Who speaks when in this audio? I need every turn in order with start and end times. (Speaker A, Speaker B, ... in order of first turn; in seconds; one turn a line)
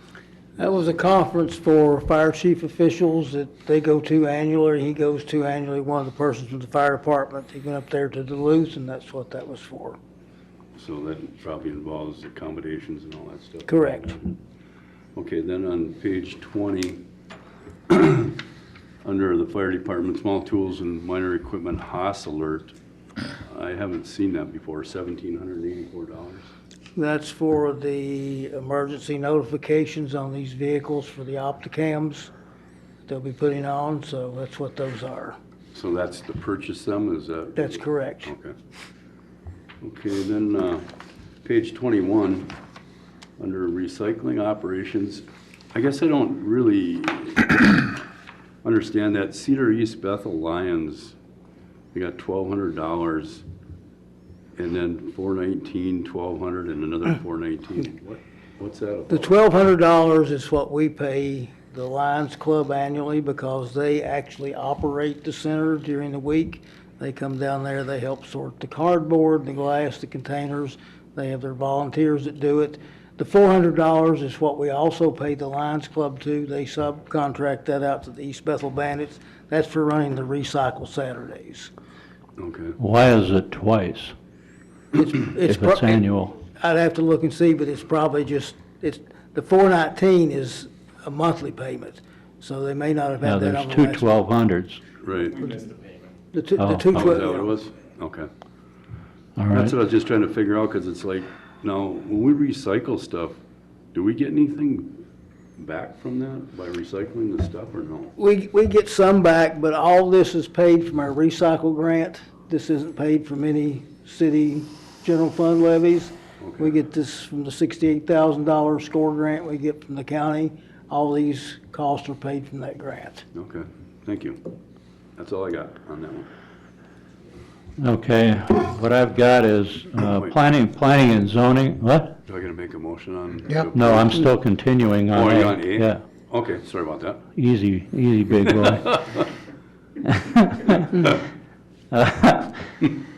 Speaker A: 0.6-10.0
Speaker B: 10.8-14.3
Speaker A: 13.7-14.2
Speaker B: 15.1-17.0
Speaker B: 17.9-18.4
Speaker B: 19.0-22.7
Speaker B: 23.5-26.5
Speaker A: 26.9-32.3
Speaker A: 33.1-35.4
Speaker B: 35.7-38.5
Speaker A: 37.5-38.3
Speaker B: 39.8-40.9
Speaker B: 41.4-42.5
Speaker B: 43.4-47.9
Speaker B: 48.6-51.1
Speaker B: 51.9-53.4
Speaker B: 54.5-59.3
Speaker A: 59.1-81.7
Speaker B: 82.4-82.7
Speaker C: 82.8-84.1
Speaker A: 84.9-86.0
Speaker C: 85.4-86.3
Speaker A: 86.6-94.1
Speaker C: 93.2-94.8
Speaker B: 95.0-95.4
Speaker A: 96.3-97.5
Speaker C: 96.6-97.0
Speaker B: 96.9-98.3
Speaker C: 99.4-99.7
Speaker B: 99.5-103.4
Speaker B: 103.9-105.0
Speaker B: 105.6-108.1
Speaker A: 108.2-123.2
Speaker B: 116.4-116.7
Speaker B: 123.3-124.4
Speaker B: 125.2-126.3
Speaker C: 127.8-132.1
Speaker B: 132.3-134.2
Speaker C: 133.7-136.0
Speaker B: 135.1-137.2
Speaker C: 137.3-139.2
Speaker C: 140.0-141.1
Speaker C: 141.9-142.9